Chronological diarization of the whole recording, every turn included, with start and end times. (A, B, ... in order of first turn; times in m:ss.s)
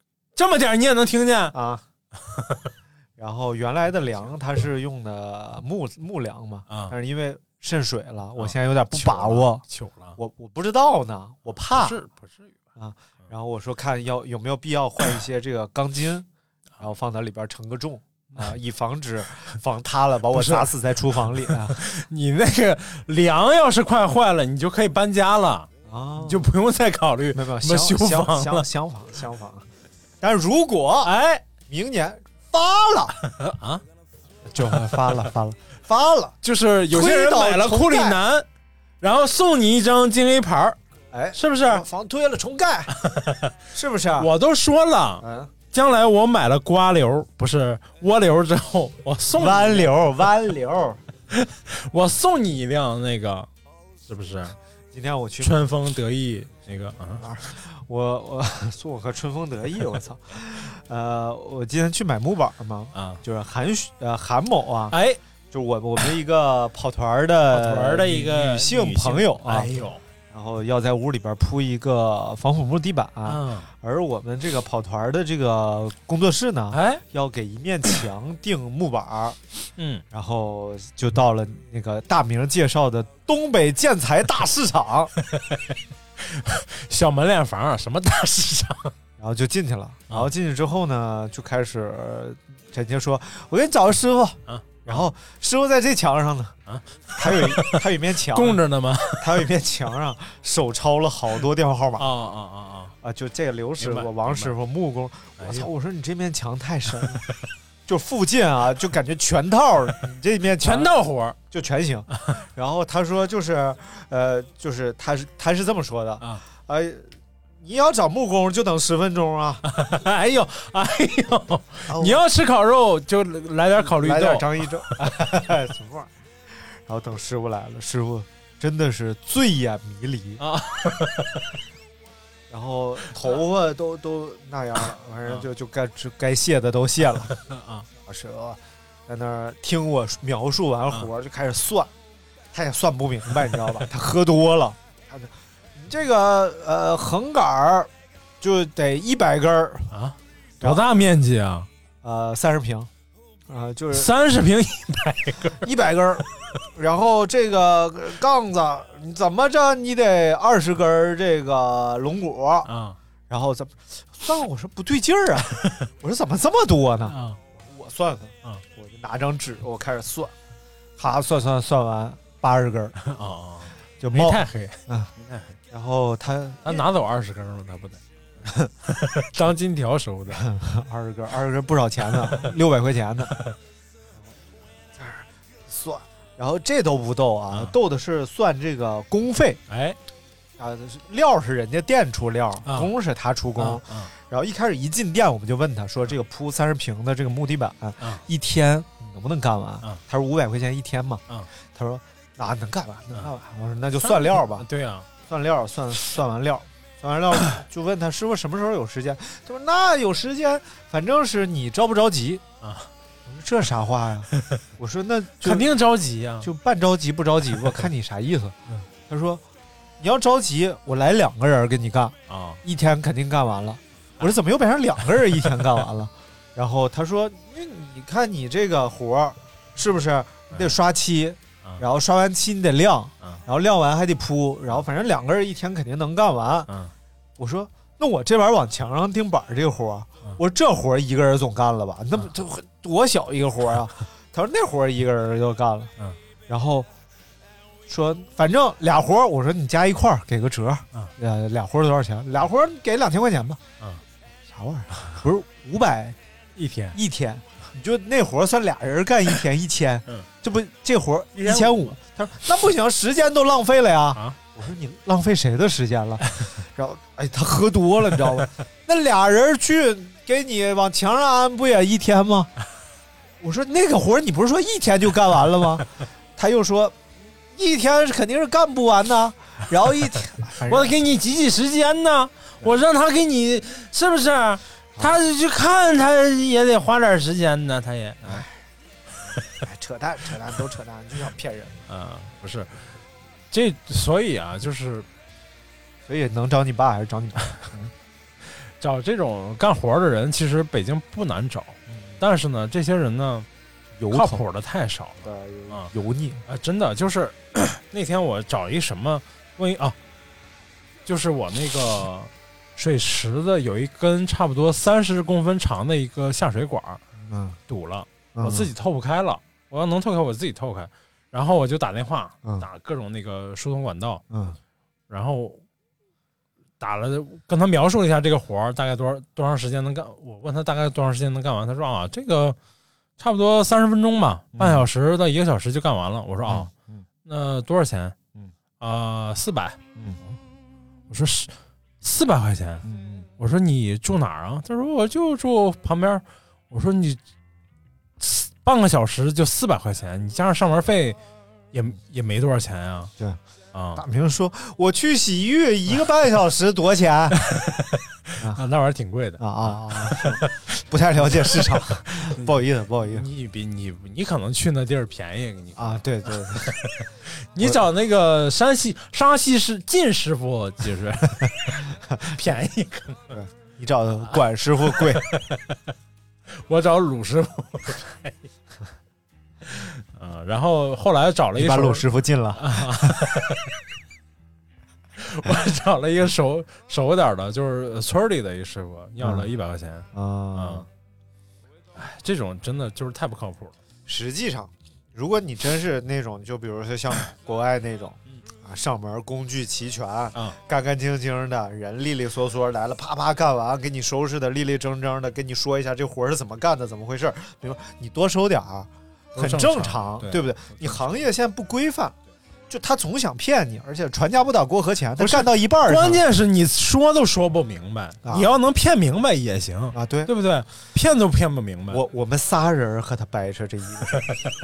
0:00.4-0:01.6 A
0:01.5-0:01.8 B
0:02.2-0:02.7 A
0:03.2-0:09.6 B
0:06.7-0:06.9 A
0:08.4-0:10.2 A
0:10.2-0:12.0 B
0:11.5-0:12.5 A
0:12.8-0:16.3 B
0:16.8-0:21.8 B
0:20.3-0:20.7 A
0:21.2-0:28.7 A
0:25.8-0:26.5 B
0:27.3-0:29.6 B
0:30.2-0:31.1 B
0:31.0-0:31.4 A
0:31.6-0:33.2 B
0:33.3-0:33.8 A
0:34.4-0:36.4 B
0:34.6-0:35.2 A
0:36.4-0:38.4 A
0:36.9-0:38.2 B
0:39.0-0:40.8 A
0:41.1-0:42.9 B
0:41.3-0:41.8 A
0:43.0-0:43.5 A
0:43.7-0:44.3 B
0:44.2-0:49.9 A
0:45.2-0:45.5 B
0:49.3-0:51.0 B
0:51.3-0:53.5 A
0:54.1-0:54.6 A
0:54.9-0:55.6 B
0:55.4-0:57.2 A
0:57.2-1:05.0 B
1:02.9-1:03.2 A
1:04.9-1:05.2 A
1:05.5-1:09.7 B
1:07.5-1:10.0 A
1:10.3-1:19.4 B
1:13.2-1:13.7 A
1:16.7-1:17.0 A
1:19.8-1:20.0 A
1:20.1-1:25.1 B
1:25.2-1:25.6 A
1:26.2-1:28.9 A
1:29.2-1:36.6 B
1:34.5-1:35.1 A
1:36.7-1:39.5 A
1:37.2-1:38.6 B
1:39.2-1:42.1 B
1:42.0-1:42.9 A
1:43.0-1:47.2 B
1:43.8-1:44.5 A
1:45.4-1:45.7 A
1:47.8-1:50.9 B
1:50.6-1:51.4 A
1:51.5-1:59.6 B
1:59.6-2:04.6 A
2:01.9-2:02.2 B
2:03.8-2:10.4 B
2:10.4-2:11.5 A
2:12.5-2:17.3 B
2:17.3-2:17.9 A
2:18.0-2:21.9 B
2:22.5-2:29.9 B
2:29.9-2:31.7 A
2:30.6-2:30.9 B
2:32.0-2:32.9 B
2:33.5-2:34.1 B
2:33.9-2:35.6 A
2:35.6-2:42.7 B
2:42.6-2:43.0 A
2:43.3-2:50.3 B
2:45.6-2:45.9 A
2:47.1-2:47.4 A
2:51.0-2:52.9 B
2:53.0-2:55.5 A
2:54.0-2:55.1 B
2:55.7-2:56.8 B
2:56.6-2:58.0 A
2:58.8-3:00.4 A
3:00.3-3:03.3 B
3:04.9-3:09.6 B
3:09.7-3:10.0 A
3:10.6-3:24.7 B
3:12.6-3:12.9 A
3:13.6-3:14.1 A
3:24.0-3:25.1 A
3:25.2-3:32.4 B
3:32.6-3:32.9 A
3:33.2-3:35.7 B
3:34.4-3:34.6 A
3:35.4-3:36.5 A
3:36.4-3:39.4 B
3:40.0-3:56.7 B
3:42.3-3:42.6 A
3:57.4-4:05.9 B
4:06.5-4:06.9 B
4:07.9-4:13.6 B
4:14.5-4:16.2 B
4:16.6-4:17.0 A
4:16.9-4:32.5 B
4:21.3-4:22.0 A
4:33.4-4:41.0 B
4:40.7-4:48.4 A
4:48.2-4:48.5 B
4:49.6-4:51.8 B
4:51.9-4:52.9 A
4:53.5-4:55.1 A
4:56.0-4:57.8 B
4:57.6-4:57.9 A
4:58.6-5:03.5 A
5:04.0-5:04.4 B
5:04.1-5:05.9 A
5:05.2-5:06.4 B
5:06.4-5:10.0 A
5:11.0-5:17.0 A
5:17.2-5:17.6 B
5:17.7-5:24.2 A
5:18.3-5:18.7 B
5:24.3-5:24.6 B
5:25.1-5:25.6 A
5:26.8-5:32.6 A
5:33.2-5:36.7 A
5:34.5-5:34.8 B
5:36.4-5:37.0 B
5:37.2-5:38.2 A
5:38.8-5:40.4 A
5:41.1-5:42.8 A
5:42.8-5:43.3 B
5:43.4-5:47.2 A
5:48.2-5:51.2 A
5:51.7-5:53.1 A
5:53.7-5:54.0 A
5:53.9-5:57.4 B
5:57.3-6:00.6 A
5:59.4-6:03.3 B
6:01.2-6:02.5 A
6:03.1-6:13.4 A
6:05.8-6:06.8 B
6:12.1-6:12.4 B
6:13.3-6:15.2 B
6:14.3-6:15.8 A
6:16.5-6:18.4 A
6:19.6-6:23.7 A
6:21.5-6:23.2 B
6:25.2-6:30.8 A
6:29.2-6:29.5 B
6:30.1-6:30.8 B
6:32.0-6:33.8 A
6:34.0-6:52.2 B
6:49.3-6:50.9 A
6:52.7-6:56.2 B
6:55.2-7:02.0 A
6:58.2-6:58.5 B
6:59.9-7:00.3 B
7:01.9-7:04.2 B